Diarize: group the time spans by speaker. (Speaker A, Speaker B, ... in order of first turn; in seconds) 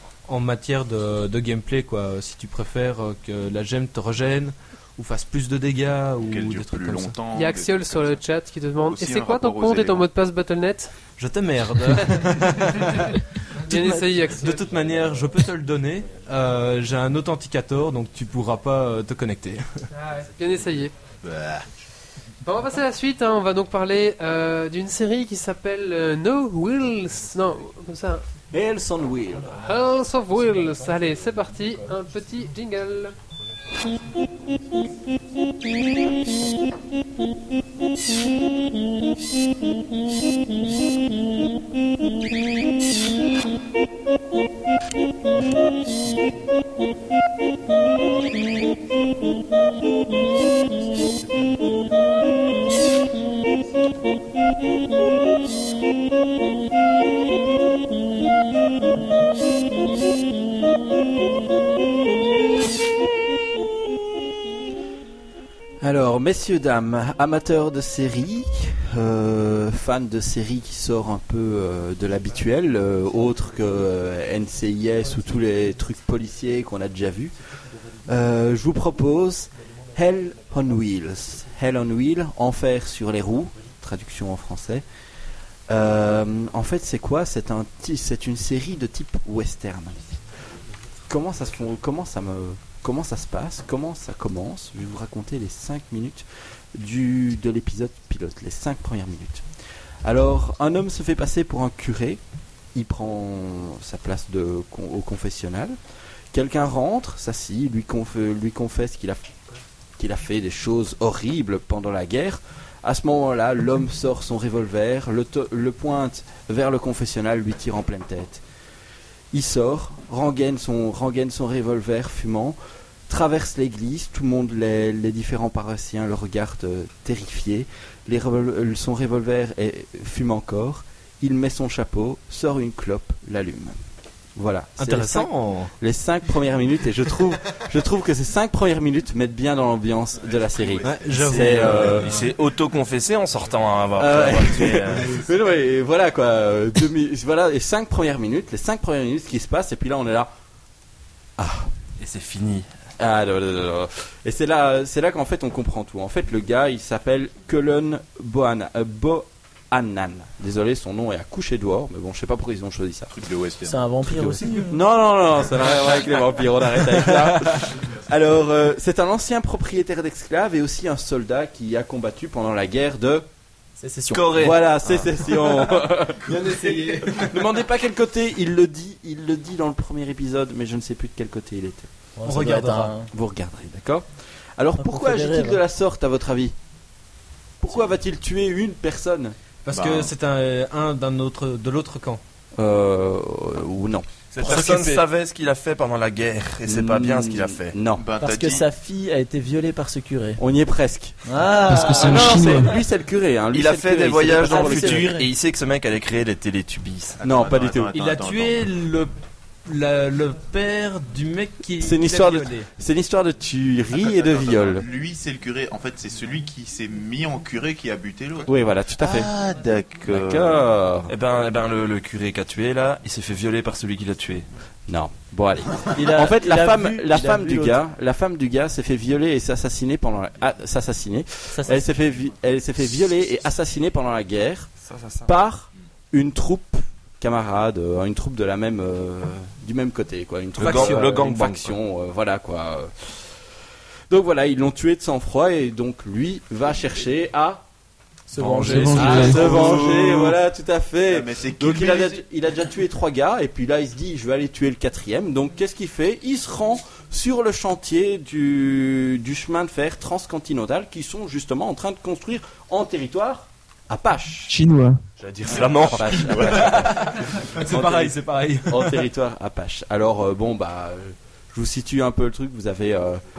Speaker A: 0.3-7.1, 11.2-19.9, 134.8-135.7, 140.8-142.3, 182.3-182.8, 189.6-192.2, 207.9-209.1, 209.7-212.7, 240.6-241.5, 266.4-269.0
Speaker B: 6.2-8.2, 8.9-10.1, 21.2-21.7, 140.5-140.9, 163.1-163.8, 176.3-177.2, 189.7-190.1, 198.0-198.7, 207.2-208.7, 214.0-220.6, 251.1-252.2, 266.2-266.6
Speaker C: 7.3-10.9, 12.6-14.7, 19.9-20.9, 22.4-28.2, 29.5-33.2
Speaker D: 28.5-29.6, 65.8-77.4, 78.0-84.8, 85.7-90.2, 91.1-99.4, 100.0-102.2, 102.7-105.8, 106.3-109.3, 110.0-118.4, 119.3-133.8, 134.4-142.2, 144.0-150.3, 151.4-151.7, 153.0-163.1, 164.1-173.3, 174.3-181.9, 183.1-184.1, 184.6-186.5, 187.6-189.4, 192.6-194.1, 196.7-198.1, 200.4-201.2, 201.9-205.1, 207.2-207.9, 211.8-214.8, 218.5-219.3, 220.1-221.1, 224.9-234.7, 235.2-243.2, 244.1-247.6, 248.7-264.6, 265.5-273.2
Speaker E: 141.3-145.2, 152.0-152.7, 174.1-175.1, 194.3-197.8, 203.5-207.2, 221.1-224.5, 234.9-235.3, 240.6-241.8, 248.4-250.4, 265.4-266.5
Speaker F: 163.6-164.8, 173.8-174.5, 182.2-183.1, 184.8-185.6, 194.4-195.0, 198.2-200.4, 201.2-202.6, 204.3-205.3, 225.9-227.8, 231.5-231.9, 248.3-249.9
Speaker G: 201.7-202.7, 248.6-249.6, 264.5-265.0